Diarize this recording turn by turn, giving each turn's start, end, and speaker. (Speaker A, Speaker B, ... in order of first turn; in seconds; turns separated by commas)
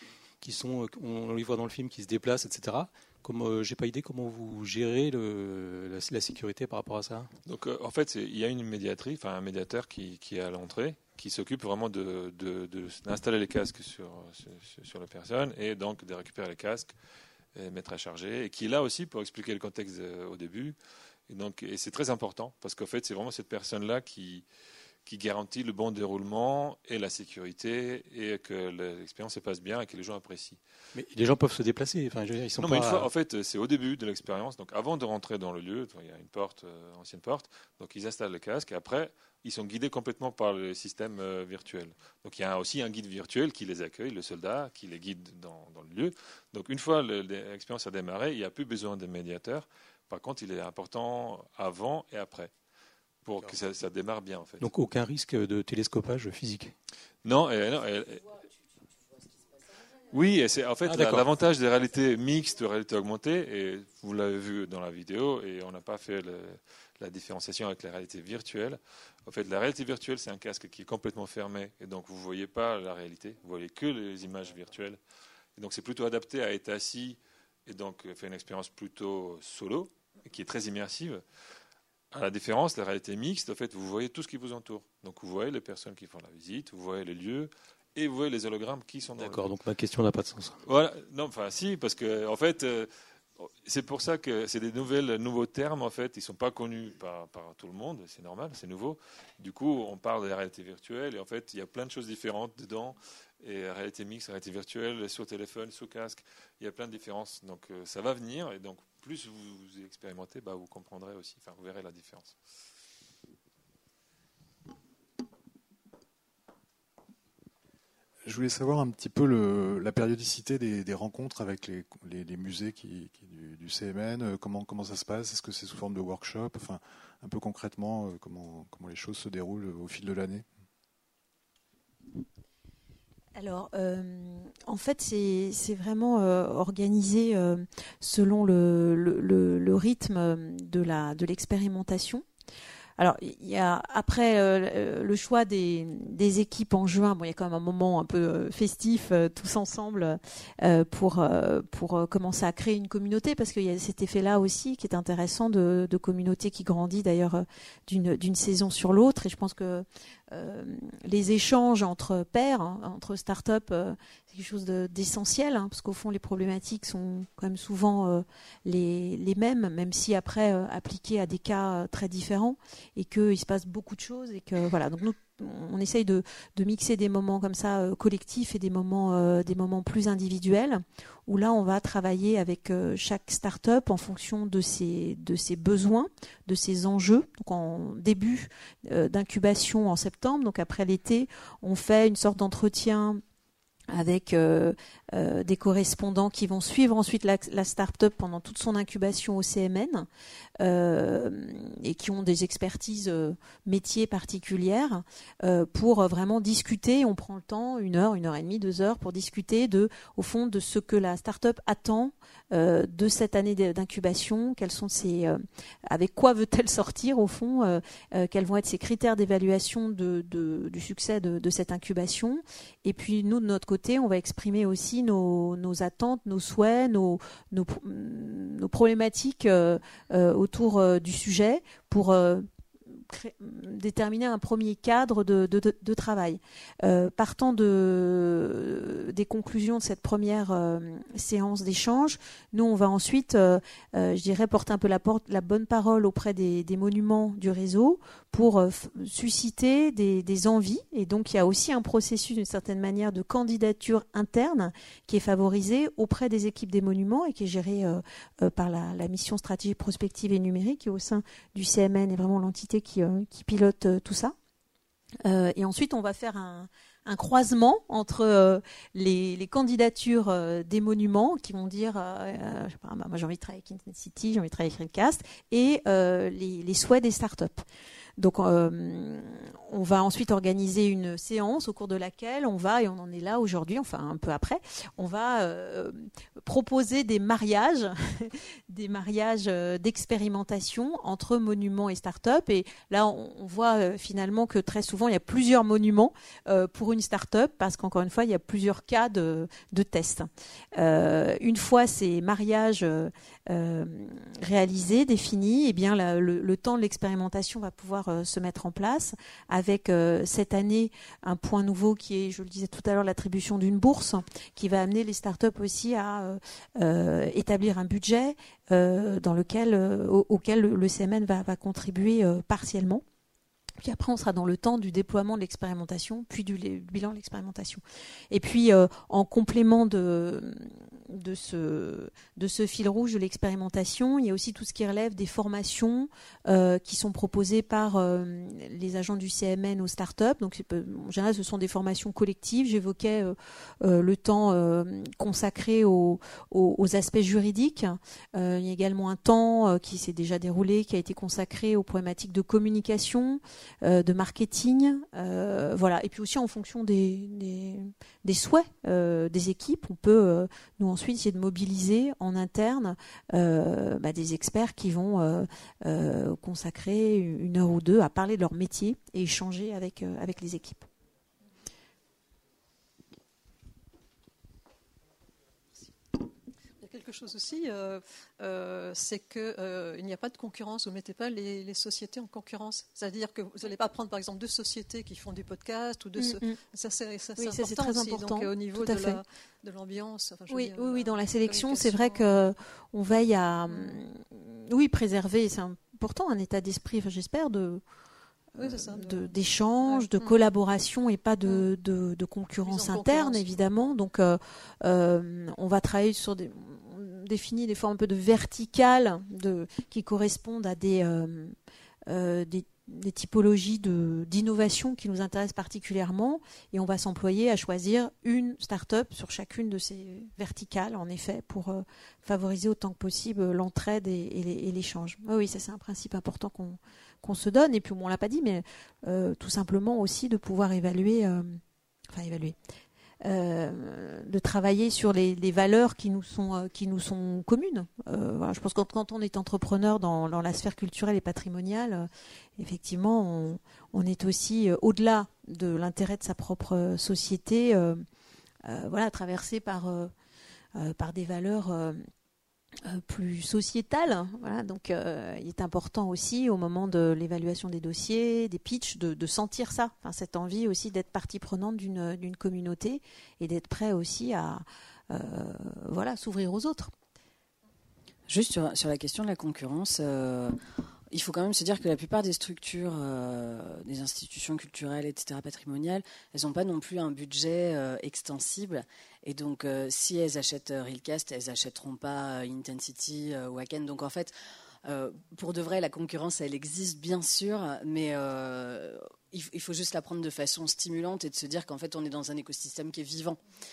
Speaker A: 0.4-7.3, Speaker B: 7.5-16.9, Speaker B: 17.6-20.8, Speaker B: 21.3-24.4, Speaker B: 25.1-30.6, Speaker A: 30.9-33.1, Speaker B: 32.6-52.5, Speaker B: 53.2-54.7, Speaker A: 54.6-56.7, Speaker B: 57.2-58.4, Speaker B: 60.1-75.0, Speaker A: 60.9-61.3, Speaker B: 75.6-81.2, Speaker B: 82.1-89.5, Speaker A: 89.1-90.6, Speaker B: 90.6-112.4, Speaker C: 118.2-130.5, Speaker D: 133.4-142.2, Speaker D: 143.0-193.2, Speaker D: 193.9-200.1, Speaker D: 200.6-264.4, Speaker D: 265.2-277.7, Speaker D: 278.2-323.0, Speaker D: 323.8-370.9, Speaker E: 376.8-392.3, Speaker D: 386.2-386.6, Speaker D: 387.4-389.2, Speaker D: 390.5-397.8, Speaker E: 393.7-394.0, Speaker D: 398.6-411.6, Speaker E: 398.6-399.3, Speaker E: 399.9-400.4, Speaker E: 402.7-403.5, Speaker D: 412.1-432.6, Speaker D: 433.2-448.1, Speaker D: 448.6-450.1, Speaker D: 450.7-452.0, Speaker D: 452.8-466.9, Speaker F: 468.3-470.6, Speaker F: 471.1-484.3, Speaker F: 484.9-493.4